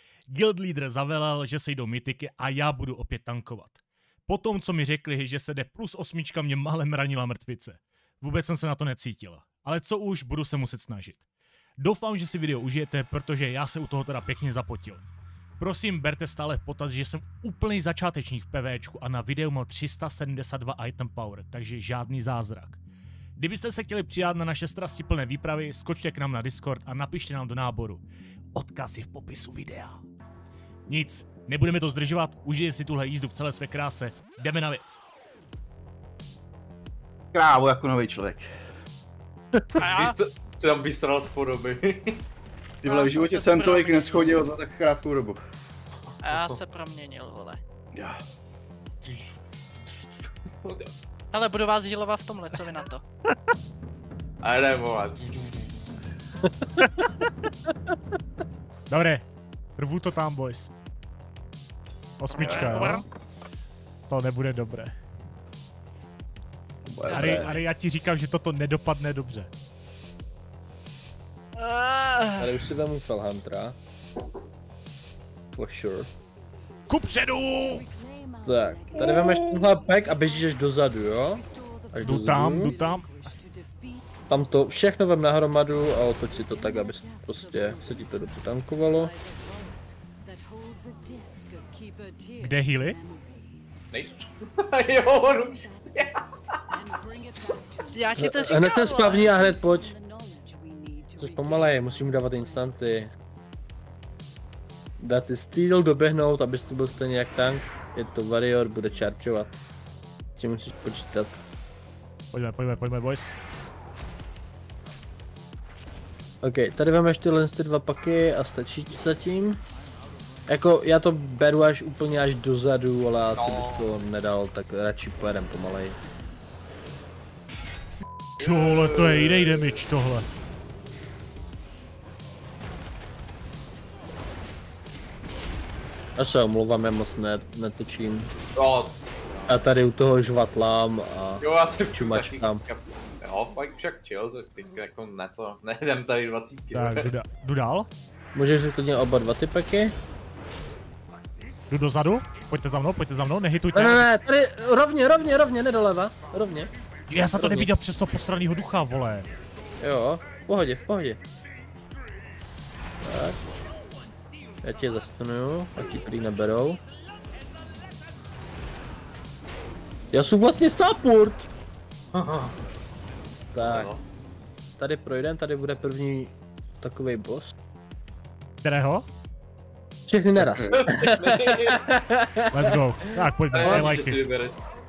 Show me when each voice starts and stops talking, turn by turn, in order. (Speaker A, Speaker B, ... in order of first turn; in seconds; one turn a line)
Speaker A: 0.3-11.2
Speaker A: 11.8-15.0
Speaker A: 15.6-22.8
Speaker A: 23.4-28.0
Speaker A: 28.5-30.0
Speaker A: 30.9-35.0
Speaker B: 37.3-38.5
Speaker C: 39.8-42.2
Speaker D: 39.8-40.2
Speaker B: 42.8-45.4
Speaker D: 42.8-44.4
Speaker C: 46.2-46.6
Speaker D: 46.2-47.6
Speaker B: 47.9-48.2
Speaker D: 51.3-53.0
Speaker C: 54.4-55.7
Speaker A: 58.9-59.2
Speaker A: 59.8-60.7
Speaker A: 62.2-63.0
Speaker B: 62.4-62.9
Speaker D: 62.5-63.0
Speaker A: 64.1-64.9
Speaker B: 66.8-67.5
Speaker D: 67.1-67.6
Speaker A: 67.1-69.5
Speaker D: 71.6-72.6
Speaker E: 72.4-73.8
Speaker E: 75.5-76.1
Speaker A: 76.9-77.9
Speaker E: 78.4-82.7
Speaker A: 82.0-83.1
Speaker D: 83.3-83.7
Speaker E: 84.3-89.1
Speaker D: 91.3-92.1
Speaker A: 92.4-93.0
Speaker C: 93.9-96.6
Speaker D: 97.9-99.3
Speaker E: 98.2-100.0
Speaker E: 101.2-103.1
Speaker E: 105.0-109.5
Speaker E: 110.4-111.4
Speaker A: 112.3-113.3
Speaker E: 116.4-119.6
Speaker E: 120.5-126.0
Speaker C: 123.3-124.0
Speaker A: 128.4-130.2
Speaker C: 128.4-129.8
Speaker E: 136.2-138.3
Speaker C: 138.5-139.7
Speaker E: 139.5-142.6
Speaker C: 141.4-147.1
Speaker A: 146.7-147.9
Speaker E: 148.3-149.9
Speaker A: 151.7-154.1
Speaker E: 153.7-156.7
Speaker A: 157.1-159.3
Speaker E: 157.3-157.7
Speaker E: 159.8-161.2
Speaker E: 163.0-163.4
Speaker E: 164.6-166.8
Speaker E: 170.1-171.5
Speaker C: 172.1-172.6
Speaker E: 173.5-173.9
Speaker C: 173.6-174.0
Speaker E: 174.8-177.5
Speaker A: 178.6-179.1
Speaker E: 180.1-182.7
Speaker B: 180.4-180.8
Speaker C: 180.8-181.8
Speaker A: 182.5-184.2
Speaker C: 183.5-184.6
Speaker E: 183.6-184.0